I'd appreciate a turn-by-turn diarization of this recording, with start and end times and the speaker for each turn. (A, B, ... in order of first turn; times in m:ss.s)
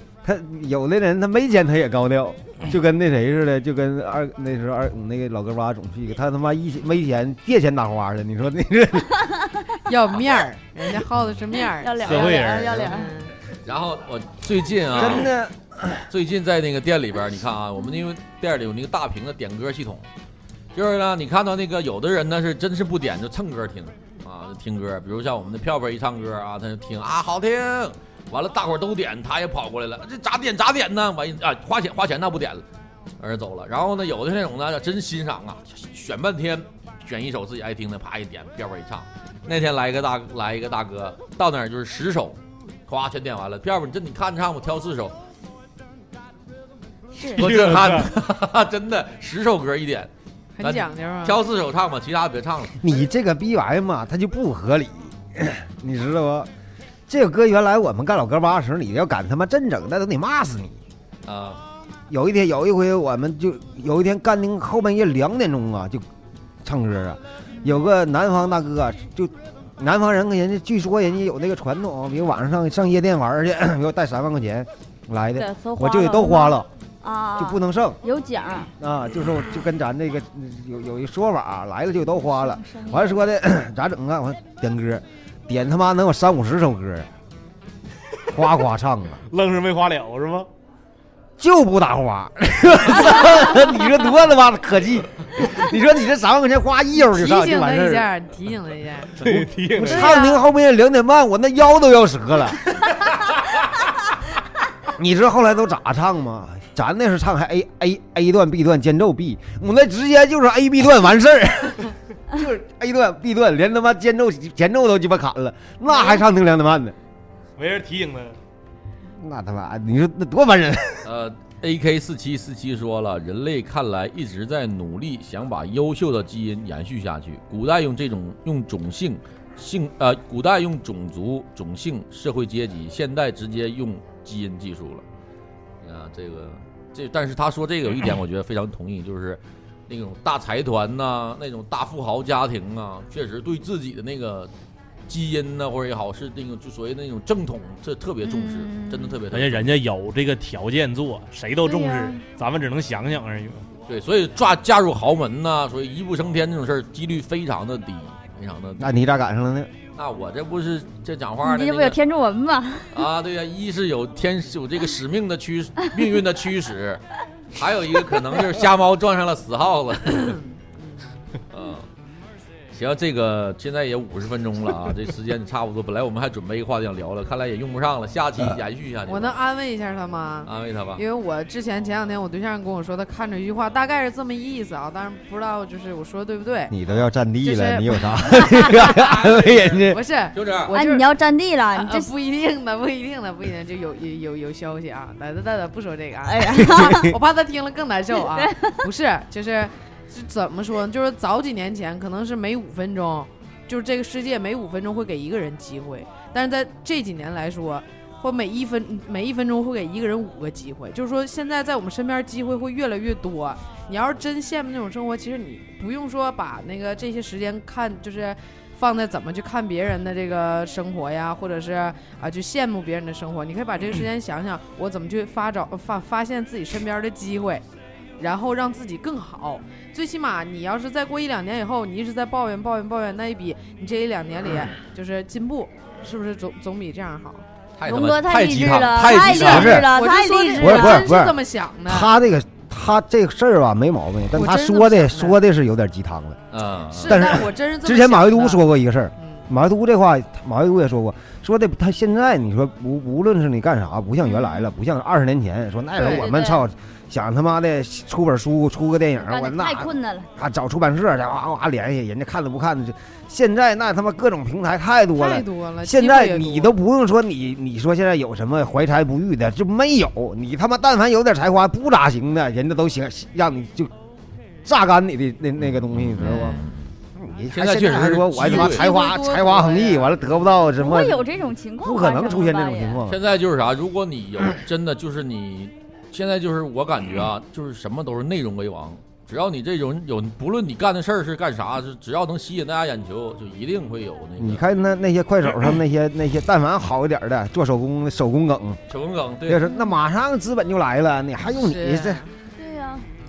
0:00.2-0:09.2 A
0:09.9-0:13.3 B
0:11.6-0:13.1 C
0:12.0-0:12.9 D
0:13.7-0:15.3 E
0:14.9-0:16.1 A
0:16.1-0:20.1 E
0:20.7-0:32.6 E
0:33.2-0:45.2 E
0:47.1-0:47.5 C
0:47.3-0:48.1 D
0:47.4-0:50.1 E
0:50.6-0:51.4 B
0:50.6-0:52.8 E
0:52.8-0:56.5 A
0:57.1-1:00.8 A
1:01.3-1:01.6 E
1:02.1-1:06.0 A
1:06.6-1:16.7 A
1:15.4-1:18.7 C
1:17.4-1:18.0 A
1:18.8-1:27.1 A
1:22.2-1:23.2 C
1:28.3-1:29.2 A
1:29.3-1:30.5 D
1:31.4-1:38.1 A
1:37.0-1:39.3 B
1:39.2-1:40.3 D
1:39.3-1:42.6 A
1:39.9-1:40.4 B
1:44.9-1:57.0 A
1:57.6-1:58.4 D
1:59.1-2:01.1 A
2:01.0-2:15.0 E
2:15.8-2:24.5 E
2:25.1-2:29.8 E
2:28.2-2:29.2 C
2:29.3-2:33.7 D
2:31.6-2:32.2 C
2:33.9-2:38.9 E
2:38.8-2:39.7 A
2:40.0-2:42.0 E
2:41.4-2:42.9 C
2:42.9-2:47.0 E
2:47.5-2:50.4 E
2:50.2-2:51.0 B
2:51.5-2:51.9 E
2:52.7-2:59.4 E
2:59.1-3:06.7 B
3:00.5-3:01.0 E
3:06.7-3:10.0 A
3:07.4-3:08.9 B
3:08.8-3:10.7 E
3:09.9-3:11.1 B
3:10.7-3:12.1 C
3:11.7-3:47.6 B
3:16.2-3:17.1 C
3:16.6-3:17.1 A
3:18.2-3:18.8 C
3:48.2-3:57.4 B
3:57.8-3:59.8 E
3:57.8-4:01.0 C
3:59.4-3:59.9 A
3:59.9-4:02.1 B
4:00.6-4:06.4 A
4:04.4-4:05.4 B
4:06.5-4:07.3 E
4:06.9-4:09.5 B
4:07.1-4:33.9 A
4:16.0-4:16.3 B
4:16.0-4:16.7 C
4:19.2-4:20.3 C
4:25.2-4:26.8 B
4:34.6-4:36.6 A
4:35.6-4:36.9 E
4:37.2-4:41.3 A
4:37.5-4:38.8 E
4:38.5-4:39.6 C
4:39.0-4:40.1 B
4:40.8-4:43.0 C
4:41.8-4:43.2 A
4:43.1-4:54.6 E
4:54.4-4:58.8 A
4:58.9-4:59.6 E
4:59.5-5:02.2 A
5:01.6-5:02.3 B
5:02.6-5:03.1 C